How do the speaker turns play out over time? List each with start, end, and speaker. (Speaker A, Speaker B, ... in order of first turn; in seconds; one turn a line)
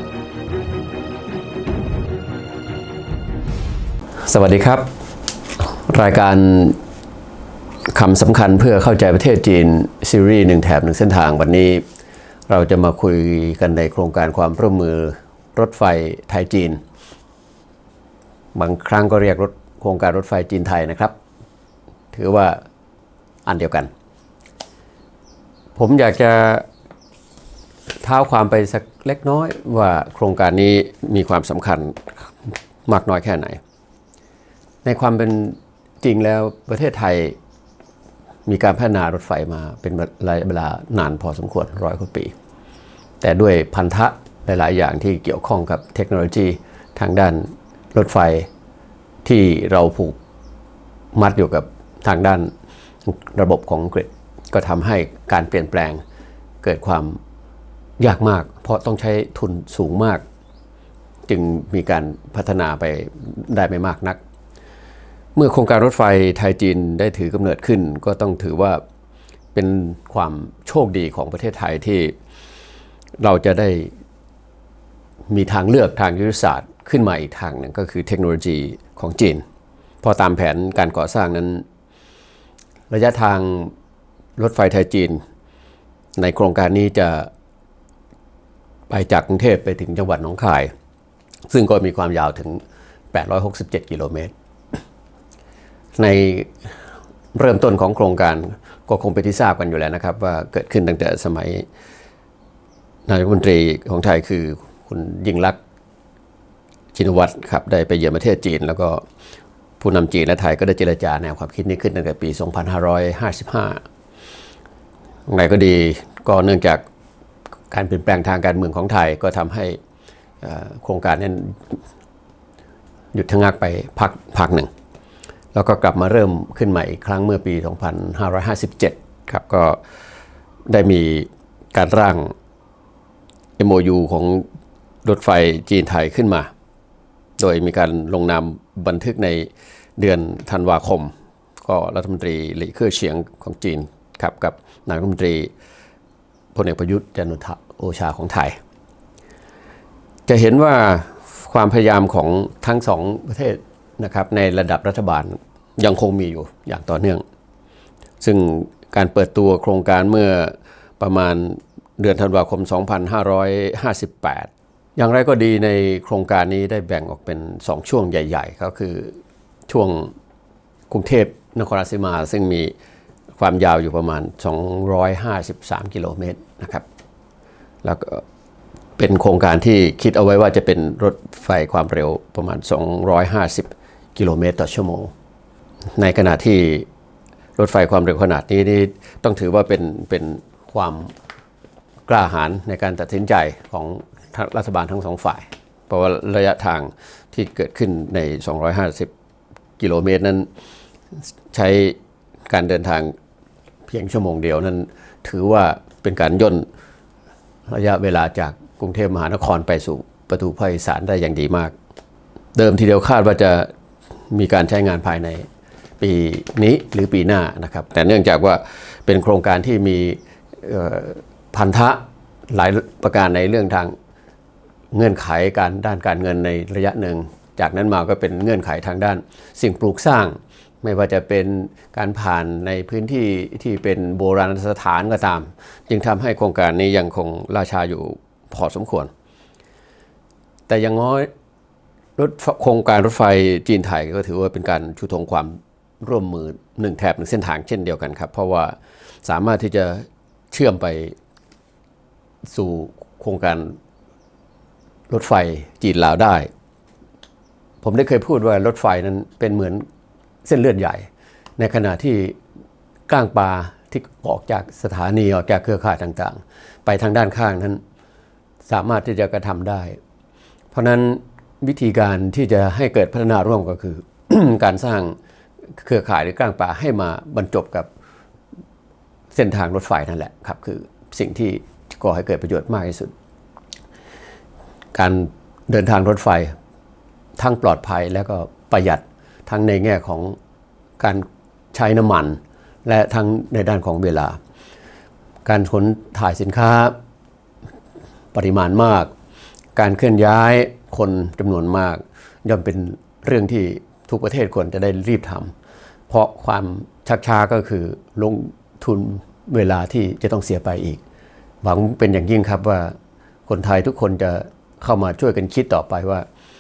Speaker A: 4.2-4.9
Speaker A: 5.6-6.8
Speaker A: 7.9-11.8
Speaker A: 12.5-16.8
Speaker A: 18.5-21.1
Speaker A: 22.1-22.6
Speaker A: 23.5-23.9
Speaker A: 25.8-26.7
Speaker A: 28.0-32.1
Speaker A: 32.9-33.6
Speaker A: 34.8-37.4
Speaker A: 38.5-42.3
Speaker A: 43.2-48.5
Speaker A: 49.2-50.2
Speaker A: 51.1-52.5
Speaker A: 53.0-56.0
Speaker A: 56.6-57.2
Speaker A: 58.0-60.2
Speaker A: 61.3-64.2
Speaker A: 65.3-68.8
Speaker A: 69.5-72.2
Speaker A: 73.2-73.9
Speaker A: 75.3-79.4
Speaker A: 80.0-81.7
Speaker A: 82.9-83.7
Speaker A: 84.4-85.2
Speaker A: 86.2-87.3
Speaker A: 88.9-90.7
Speaker A: 91.5-92.6
Speaker A: 93.1-94.3
Speaker A: 96.0-96.7
Speaker A: 97.3-101.7
Speaker A: 103.1-105.6
Speaker A: 106.9-109.0
Speaker A: 109.8-113.8
Speaker A: 115.3-116.8
Speaker A: 117.7-119.8
Speaker A: 120.4-121.8
Speaker A: 123.1-124.7
Speaker A: 125.5-129.8
Speaker A: 130.7-132.3
Speaker A: 133.6-134.5
Speaker A: 135.1-136.5
Speaker A: 137.4-141.1
Speaker A: 141.6-145.5
Speaker A: 146.5-148.6
Speaker A: 150.3-157.2
Speaker A: 158.2-170.1
Speaker A: 170.9-172.7
Speaker A: 173.4-176.8
Speaker A: 177.8-178.2
Speaker A: 179.0-185.1
Speaker A: 185.9-186.9
Speaker A: 187.6-191.1
Speaker A: 192.1-199.1
Speaker A: 199.8-200.5
Speaker A: 201.5-202.0
Speaker A: 202.5-203.2
Speaker A: 203.9-206.7
Speaker A: 207.7-211.7
Speaker A: 212.6-213.7
Speaker A: 214.3-215.5
Speaker A: 216.0-223.9
Speaker A: 224.9-239.1
Speaker A: 240.7-241.3
Speaker A: 242.2-251.2
Speaker A: 252.4-253.8
Speaker A: 255.1-256.5
Speaker A: 257.8-259.9
Speaker A: 260.4-262.4
Speaker A: 263.1-267.8
Speaker A: 268.7-270.0
Speaker A: 270.7-275.2
Speaker A: 275.8-277.9
Speaker A: 279.3-283.1
Speaker A: 284.9-286.6
Speaker A: 287.4-290.4
Speaker A: 291.0-294.4
Speaker A: 295.5-296.9
Speaker A: 298.3-299.1
Speaker A: 299.8-305.5
Speaker A: 306.1-311.0
Speaker A: 311.6-313.0
Speaker A: 313.5-316.3